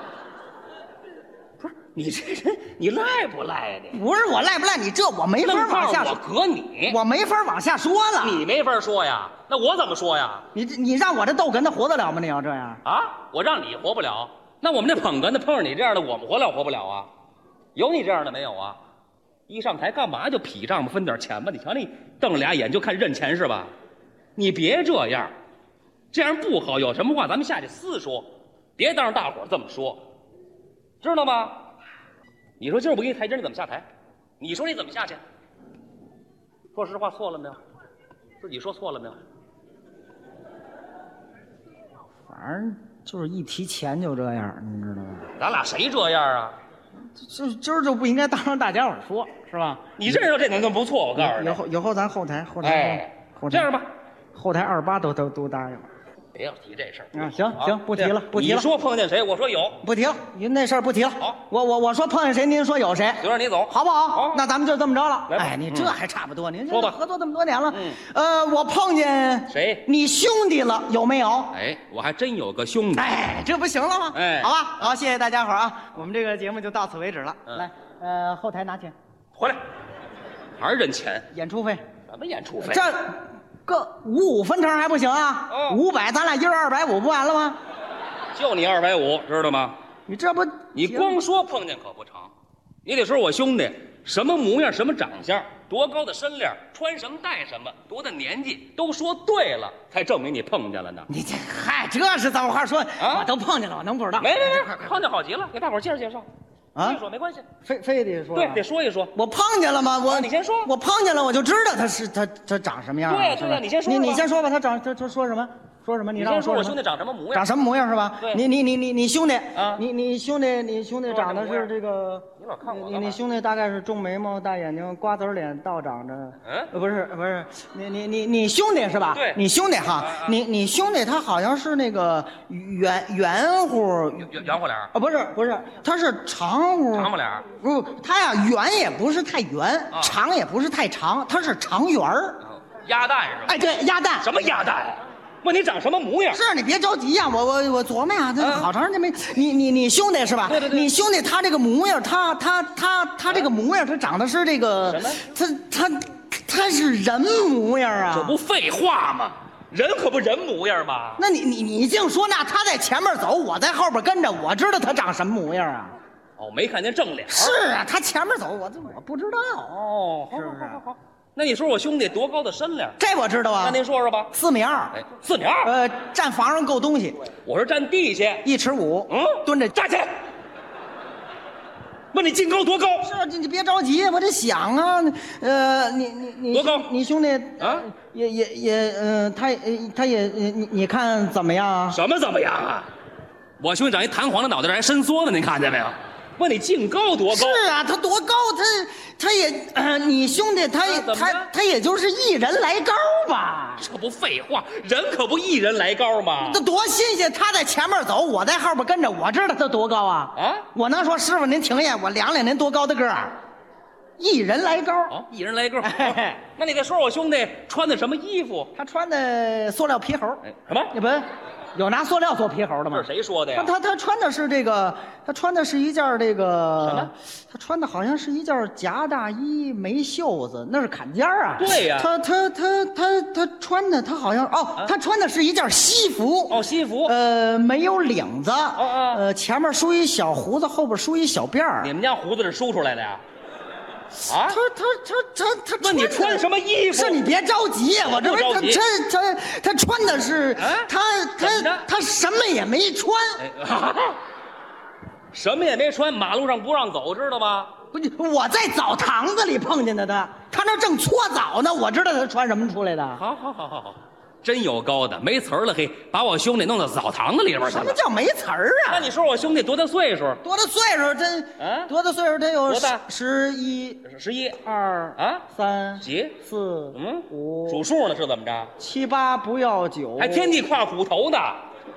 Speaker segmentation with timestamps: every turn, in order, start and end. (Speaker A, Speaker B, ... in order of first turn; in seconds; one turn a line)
Speaker A: 1.6-4.0
Speaker B: 3.9-6.2
Speaker A: 5.4-7.0
Speaker B: 6.9-8.4
Speaker A: 8.2-10.5
Speaker B: 10.5-12.8
Speaker A: 12.8-17.1
Speaker A: 17.8-18.8
Speaker A: 19.5-23.7
Speaker A: 24.4-25.3
Speaker A: 26.1-30.1
Speaker A: 31.0-31.6
Speaker A: 32.6-33.9
Speaker A: 34.4-35.2
Speaker A: 36.7-37.6
Speaker A: 38.4-39.2
Speaker B: 42.3-45.3
Speaker A: 45.4-46.6
Speaker B: 47.1-49.9
Speaker A: 50.0-51.6
Speaker B: 51.2-53.7
Speaker A: 52.6-53.9
Speaker B: 54.3-55.9
Speaker A: 56.4-59.8
Speaker B: 57.1-58.7
Speaker B: 59.8-71.6
Speaker A: 63.2-64.5
Speaker A: 65.3-66.0
Speaker A: 66.7-67.0
Speaker A: 67.7-68.0
Speaker A: 69.5-69.8
Speaker A: 71.5-73.2
Speaker B: 73.0-79.0
Speaker A: 74.1-74.9
Speaker A: 80.6-81.3
Speaker B: 81.3-81.8
Speaker A: 82.1-82.9
Speaker B: 82.7-87.6
Speaker A: 85.5-85.8
Speaker A: 88.3-89.8
Speaker B: 90.1-91.2
Speaker A: 90.8-92.3
Speaker A: 92.8-101.1
Speaker B: 101.1-105.0
Speaker A: 103.0-103.3
Speaker A: 104.2-107.5
Speaker B: 106.8-107.0
Speaker B: 107.6-116.8
Speaker A: 108.3-109.1
Speaker A: 110.1-110.7
Speaker A: 113.0-114.3
Speaker A: 116.2-117.6
Speaker B: 117.3-142.4
Speaker A: 119.5-119.8
Speaker A: 121.1-121.7
Speaker A: 122.4-123.2
Speaker A: 126.4-126.7
Speaker A: 129.1-129.4
Speaker A: 130.0-130.4
Speaker A: 134.2-134.9
Speaker A: 136.9-137.5
Speaker A: 142.5-143.7
Speaker B: 143.5-144.3
Speaker A: 144.2-146.4
Speaker B: 146.3-158.4
Speaker A: 148.4-148.7
Speaker A: 150.5-150.9
Speaker A: 154.8-155.2
Speaker A: 158.1-161.2
Speaker B: 161.2-166.0
Speaker A: 166.4-167.6
Speaker B: 167.3-170.8
Speaker A: 169.7-173.0
Speaker B: 173.0-173.8
Speaker A: 173.6-174.3
Speaker B: 174.3-175.0
Speaker A: 174.9-175.7
Speaker B: 175.6-177.2
Speaker A: 177.4-178.5
Speaker B: 178.4-179.8
Speaker A: 179.1-180.2
Speaker A: 182.1-183.1
Speaker B: 183.0-192.0
Speaker A: 186.5-186.9
Speaker A: 187.6-187.9
Speaker A: 191.9-192.9
Speaker A: 193.6-197.7
Speaker B: 197.3-203.9
Speaker A: 200.8-201.5
Speaker A: 203.8-206.6
Speaker B: 206.4-213.3
Speaker A: 210.4-210.7
Speaker B: 214.2-215.2
Speaker A: 215.1-218.7
Speaker B: 215.8-216.4
Speaker B: 218.8-241.9
Speaker A: 220.4-220.9
Speaker A: 222.9-223.7
Speaker A: 226.8-227.1
Speaker A: 231.6-232.1
Speaker A: 236.5-237.2
Speaker A: 238.8-239.2
Speaker A: 241.8-243.2
Speaker A: 244.3-244.6
Speaker B: 244.3-253.4
Speaker A: 245.8-247.2
Speaker A: 248.1-248.8
Speaker A: 250.6-251.9
Speaker A: 253.4-254.2
Speaker A: 255.3-257.7
Speaker B: 257.9-263.2
Speaker A: 263.2-268.0
Speaker B: 267.6-269.1
Speaker A: 268.9-270.4
Speaker B: 270.4-274.0
Speaker A: 271.6-271.9
Speaker A: 272.7-273.0
Speaker A: 274.1-274.6
Speaker B: 274.6-277.8
Speaker A: 275.2-275.5
Speaker A: 276.0-276.4
Speaker A: 276.9-278.7
Speaker B: 278.8-280.6
Speaker A: 280.2-281.6